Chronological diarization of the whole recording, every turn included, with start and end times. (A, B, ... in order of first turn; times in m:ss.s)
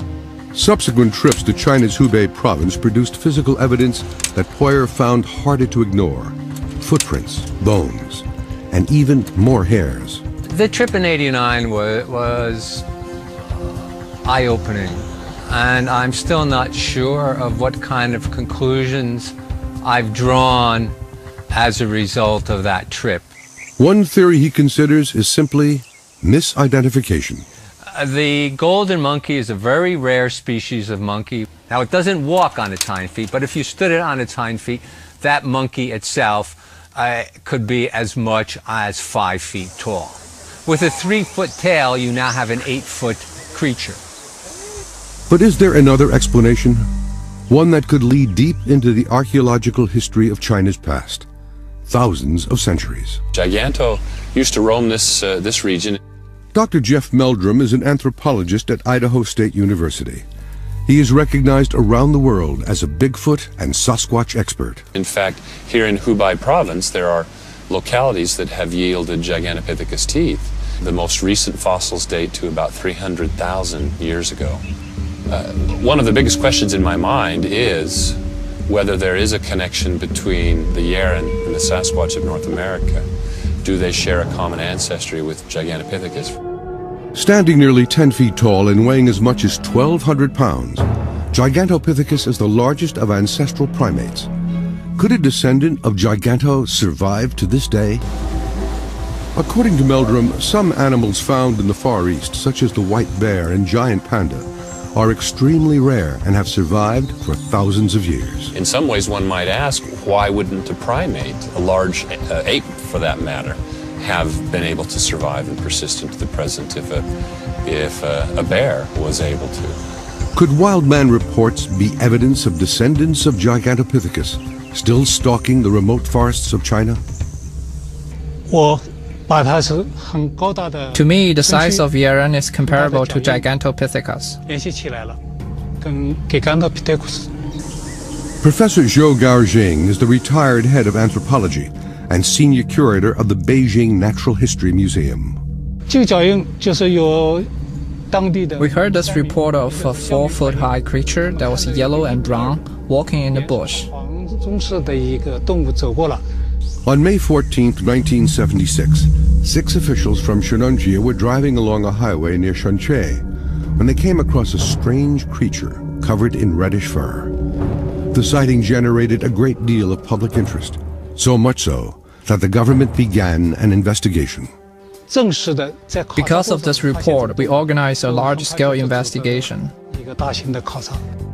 0:00.5-0:10.2 A
0:10.5-0:12.8 B
0:14.2-0:20.9 B
0:21.5-0:23.3 B
0:23.8-0:27.5 A
0:27.9-0:44.0 B
0:45.3-0:46.9 A
0:47.5-0:51.3 A
0:51.9-0:53.2 A
0:53.3-0:56.0 C
0:56.5-1:00.2 A
1:00.9-1:04.9 A
1:04.9-1:14.6 C
1:15.3-1:23.1 C
1:23.6-1:26.4 C
1:27.1-1:34.3 A
1:35.0-1:38.0 A
1:39.4-1:48.5 A
1:48.5-1:57.1 C
1:57.6-1:59.8 C
2:00.3-2:07.0 A
2:08.5-2:11.9 D
2:10.9-2:14.4 E
2:12.6-2:13.5 D
2:14.5-2:15.2 D
2:15.8-2:17.3 D
2:18.4-2:25.4 A
2:25.9-2:27.5 D
2:28.1-2:32.8 D
2:28.6-2:33.9 E
2:33.3-2:36.2 D
2:36.8-2:43.2 A
2:43.8-2:47.3 A
2:48.1-2:54.5 A
2:55.1-3:01.0 D
2:56.2-2:59.7 E